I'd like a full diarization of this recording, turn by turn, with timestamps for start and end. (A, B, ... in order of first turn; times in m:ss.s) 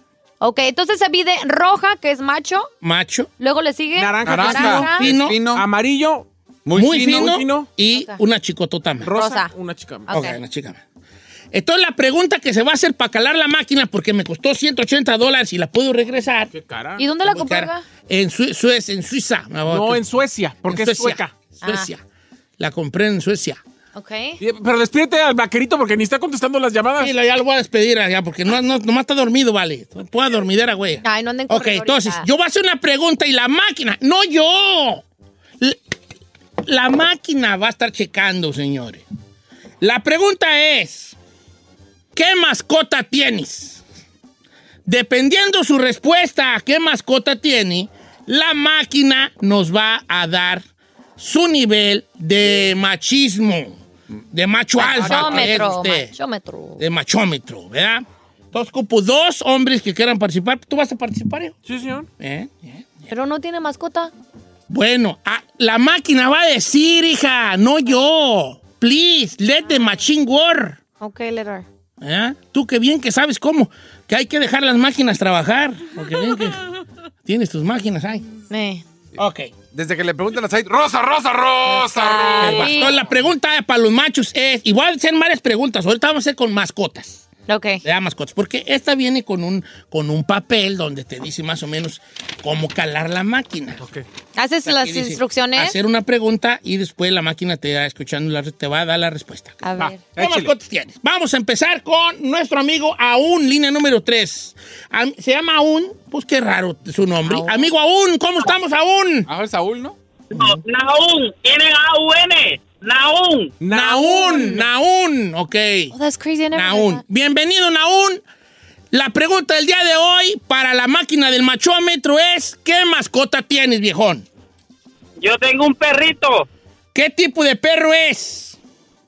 0:00.4-0:02.7 A
0:02.8-0:03.3 B
0:03.4-0:05.0 A
0:04.0-0:06.3 C
0:04.3-0:05.6 D
0:05.0-0:05.4 B
0:06.7-0:07.3 D
0:06.7-0:09.1 B
0:06.8-0:07.7 C
0:07.9-0:08.2 A
0:09.0-0:10.1 C
0:09.1-0:09.5 A
0:10.1-0:10.4 A
0:10.1-0:10.8 B
0:11.5-0:16.5 B
0:16.5-0:17.0 C
0:17.0-0:17.8 A
0:17.2-0:20.0 B
0:19.7-0:21.3 C
0:20.6-0:22.0 B
0:21.6-0:21.9 A
0:22.6-0:23.6 B
0:24.0-0:24.4 A
0:24.4-0:27.1 C
0:27.0-0:35.0 B
0:31.0-0:32.3 A
0:36.6-0:39.0 B
0:39.8-0:41.2 B
0:42.1-0:43.8 B
0:44.9-0:50.6 B
0:51.2-0:53.8 B
0:54.3-0:56.1 B
0:54.8-0:55.3 C
0:54.8-0:56.8 A
0:56.8-1:01.6 B
1:01.6-1:02.1 C
1:02.2-1:03.1 B
1:03.1-1:04.1 A
1:04.7-1:10.8 B
1:11.0-1:11.7 A
1:12.0-1:16.7 B
1:17.2-1:18.3 B
1:18.5-1:18.8 A
1:19.2-1:19.5 B
1:19.7-1:22.8 D
1:21.8-1:23.0 A
1:22.4-1:27.3 B
1:27.5-1:27.8 A
1:27.8-1:33.8 B
1:34.4-1:35.8 A
1:34.6-1:39.6 B
1:39.6-1:40.0 A
1:39.8-1:40.5 C
1:40.2-1:49.3 B
1:47.3-1:47.7 A
1:49.3-1:50.0 D
1:50.3-1:53.5 E
1:53.6-1:54.7 C
1:53.7-1:56.0 B
1:55.9-1:57.0 A
1:56.5-1:58.2 B
1:58.9-2:04.3 B
2:05.2-2:06.5 E
2:06.9-2:08.6 B